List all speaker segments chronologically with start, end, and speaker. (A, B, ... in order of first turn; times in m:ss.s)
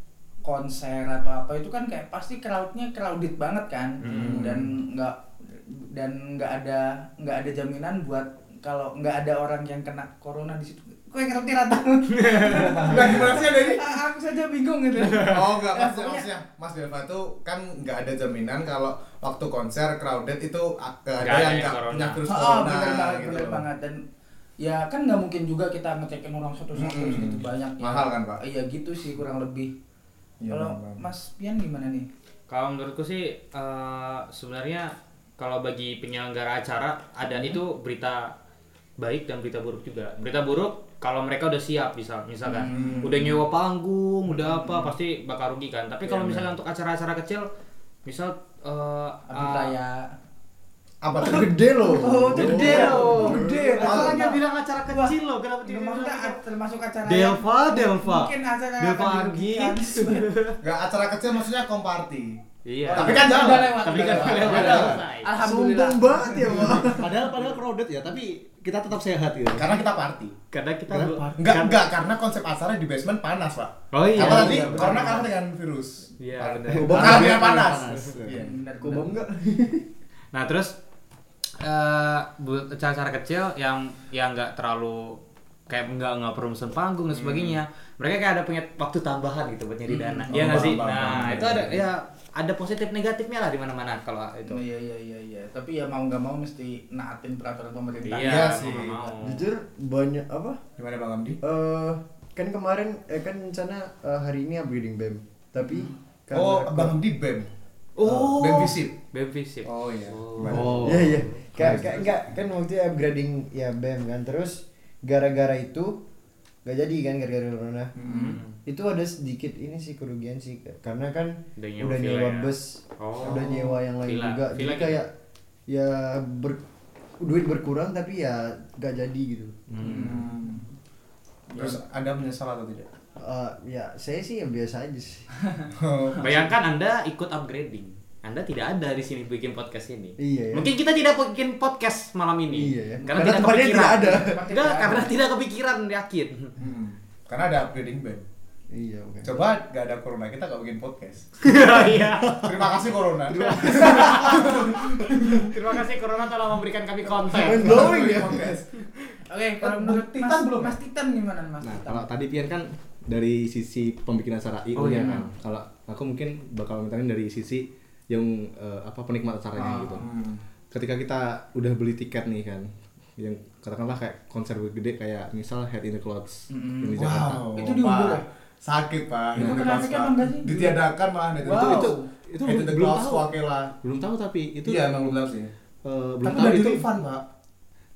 0:00.4-0:16.3 A
0:04.0-0:04.5 B
0:04.0-0:04.7 C
0:12.1-0:13.2 B
0:12.5-0:13.4 D
0:12.9-0:13.8 C
0:15.1-0:23.6 C
0:21.2-0:22.2 B
0:22.3-0:24.0 A
0:24.6-0:29.7 A
0:26.8-0:28.4 C
0:30.4-0:31.0 C
0:30.5-0:32.1 A
0:32.5-0:38.3 B
0:39.0-0:47.4 B
0:42.4-0:43.2 A
0:42.7-0:43.4 C
0:44.4-0:44.9 A
0:46.1-0:46.4 C
0:48.0-0:49.7 B
0:49.3-0:50.0 A
0:51.0-0:51.5 C
0:51.1-0:54.2 D
0:51.2-1:00.3 A
0:52.3-0:56.4 B
0:52.6-0:54.4 C
0:57.0-1:00.6 B
1:00.6-1:02.4 C
1:02.6-1:05.3 B
1:02.9-1:06.9 A
1:02.9-1:05.0 C
1:04.5-1:04.9 E
1:05.4-1:07.3 D
1:06.9-1:09.7 E
1:09.5-1:10.4 C
1:10.5-1:11.8 B
1:10.9-1:11.4 E
1:11.4-1:18.5 C
1:13.9-1:15.3 B
1:14.2-1:15.0 D
1:16.2-1:18.1 B
1:16.7-1:17.6 D
1:16.8-1:18.5 E
1:18.3-1:19.1 A
1:18.8-1:19.8 D
1:20.3-1:20.7 B
1:21.6-1:34.6 B
1:27.1-1:27.6 C
1:29.9-1:30.8 A
1:30.3-1:31.8 C
1:34.5-1:39.1 A
1:38.0-1:39.5 B
1:38.2-1:39.0 C
1:39.2-1:40.6 D
1:40.8-1:41.4 C
1:41.4-1:47.0 D
1:46.3-1:47.5 C
1:48.0-1:51.2 B
1:48.0-1:48.9 C
1:49.6-1:50.9 C
1:50.4-1:52.0 E
1:50.6-1:56.0 D
1:56.6-1:57.9 D
1:58.0-1:58.4 C
1:58.0-1:58.5 B
1:58.6-2:05.1 D
2:01.6-2:05.0 B
2:05.7-2:06.6 D
2:07.2-2:10.0 D
2:09.7-2:10.2 B
2:09.8-2:10.6 C
2:09.8-2:10.5 A
2:11.5-2:12.9 C
2:13.2-2:15.3 D
2:15.8-2:16.5 C
2:16.2-2:26.5 B
2:20.2-2:20.7 D
2:22.5-2:24.4 D
2:23.0-2:25.1 A
2:26.6-2:28.2 C
2:28.7-2:29.5 D
2:29.2-2:31.5 C
2:31.4-2:32.5 B
2:32.3-2:35.5 C
2:33.4-2:34.5 B
2:33.5-2:34.7 D
2:35.4-2:38.1 B
2:37.3-2:38.8 C
2:37.4-2:38.4 D
2:39.3-2:42.1 A
2:39.6-2:40.8 C
2:41.6-2:50.0 E
2:44.8-2:45.3 B
2:49.6-2:50.0 A
2:50.0-2:50.4 C
2:50.7-2:52.6 E
2:53.2-2:57.4 E
2:56.5-2:58.2 A
2:57.0-3:03.7 C
2:59.4-3:00.8 A
2:59.4-2:59.6 E
3:01.4-3:02.0 A
3:01.5-3:04.9 E
3:04.6-3:05.5 C
3:05.8-3:06.9 E
3:06.2-3:07.2 C